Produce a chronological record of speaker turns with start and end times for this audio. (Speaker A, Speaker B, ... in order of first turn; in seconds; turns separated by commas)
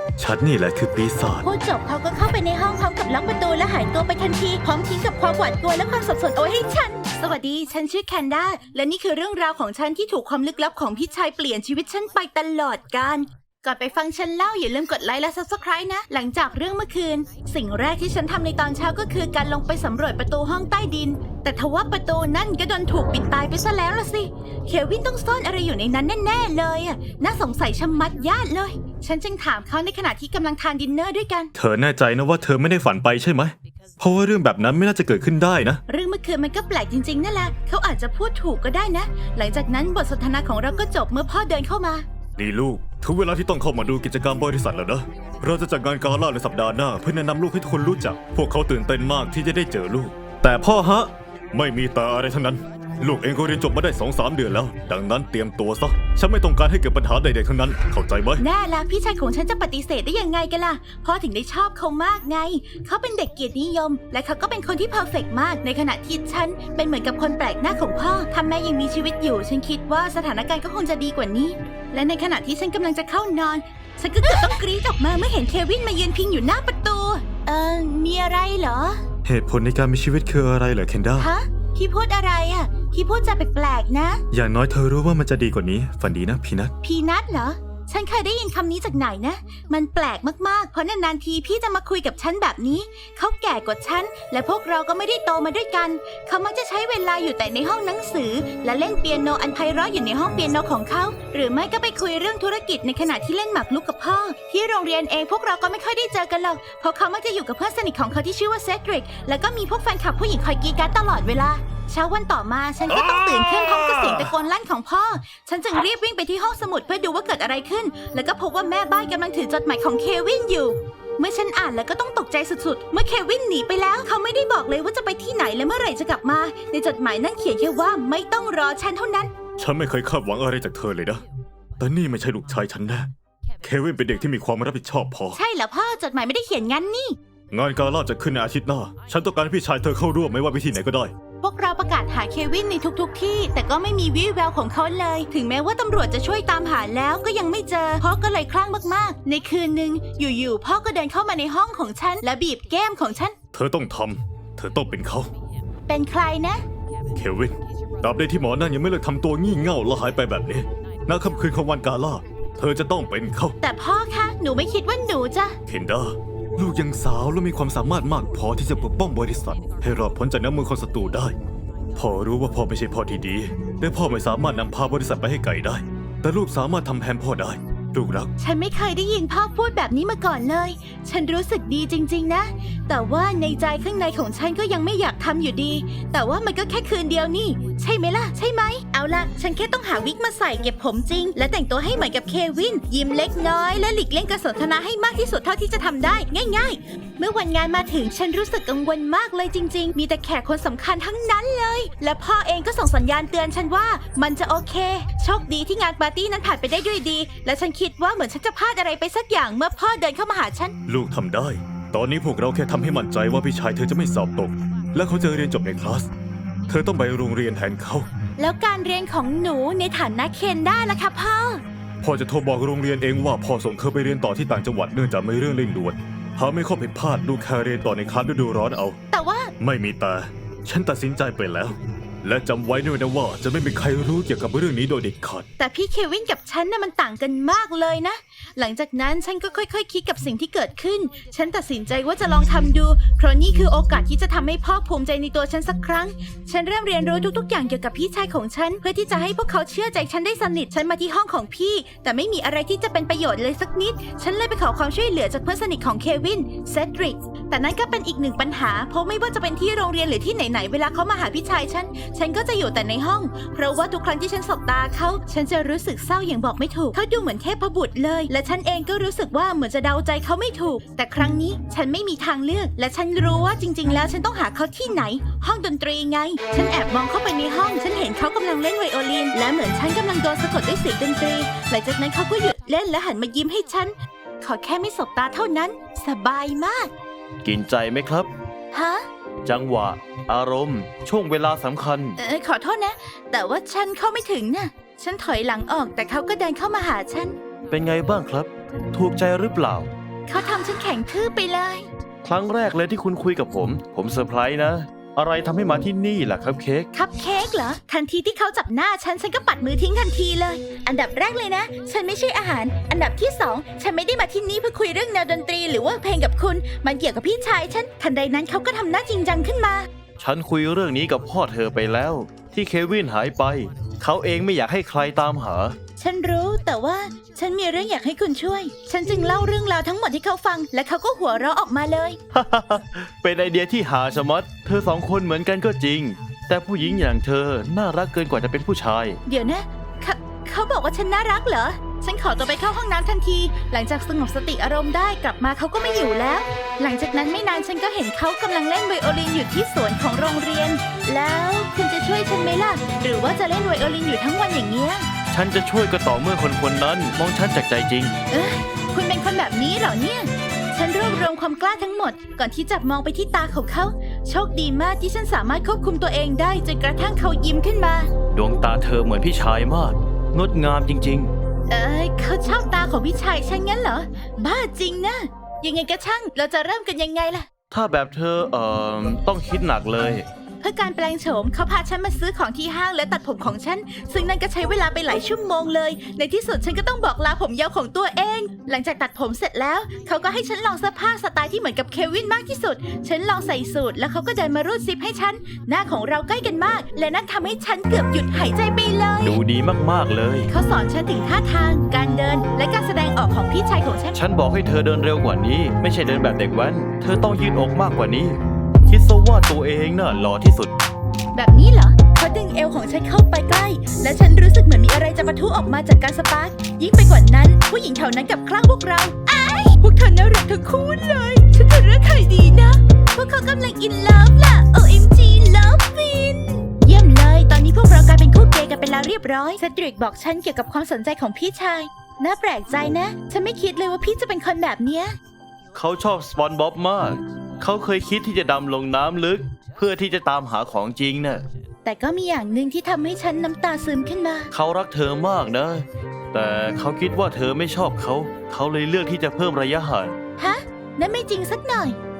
Speaker A: 0.2-1.4, Speaker B: 1.4-31.5, Speaker A: 31.5-35.8, Speaker B: 35.9-42.0, Speaker A: 42.4-58.4, Speaker B: 58.4-79.0, Speaker A: 79.2-81.3, Speaker B: 81.2-84.2, Speaker A: 84.3-86.7, Speaker B: 86.8-129.3, Speaker A: 129.6-131.2, Speaker A: 131.8-133.1, Speaker A: 133.6-135.4, Speaker B: 135.3-137.2, Speaker A: 137.5-141.1, Speaker B: 141.4-153.3, Speaker A: 153.5-155.3, Speaker B: 155.9-156.6, Speaker A: 157.1-163.6, Speaker B: 163.6-165.6, Speaker A: 165.7-171.3, Speaker A: 171.9-178.3, Speaker B: 178.4-210.7, Speaker A: 210.8-216.1, Speaker A: 216.7-218.1, Speaker B: 218.4-221.6, Speaker A: 222.0-229.0, Speaker B: 229.1-229.5, Speaker A: 229.6-235.4, Speaker B: 235.6-286.9, Speaker C: 287.4-288.3, Speaker B: 288.7-289.1, Speaker C: 289.4-292.2, Speaker B: 292.2-297.4, Speaker C: 297.7-299.9, Speaker B: 300.3-301.9, Speaker C: 302.2-306.9, Speaker B: 306.9-319.9, Speaker C: 320.2-325.8, Speaker B: 326.0-332.2, Speaker C: 332.3-339.2, Speaker B: 339.2-355.1, Speaker C: 355.3-358.1, Speaker B: 358.3-368.1, Speaker C: 368.3-371.3, Speaker B: 371.7-377.5, Speaker C: 377.7-380.2, Speaker B: 380.6-399.4, Speaker C: 399.2-400.5, Speaker B: 400.5-404.2, Speaker C: 404.1-410.7, Speaker B: 411.3-435.1, Speaker C: 435.7-441.4, Speaker B: 441.8-444.5, Speaker C: 444.5-450.1, Speaker B: 450.4-452.0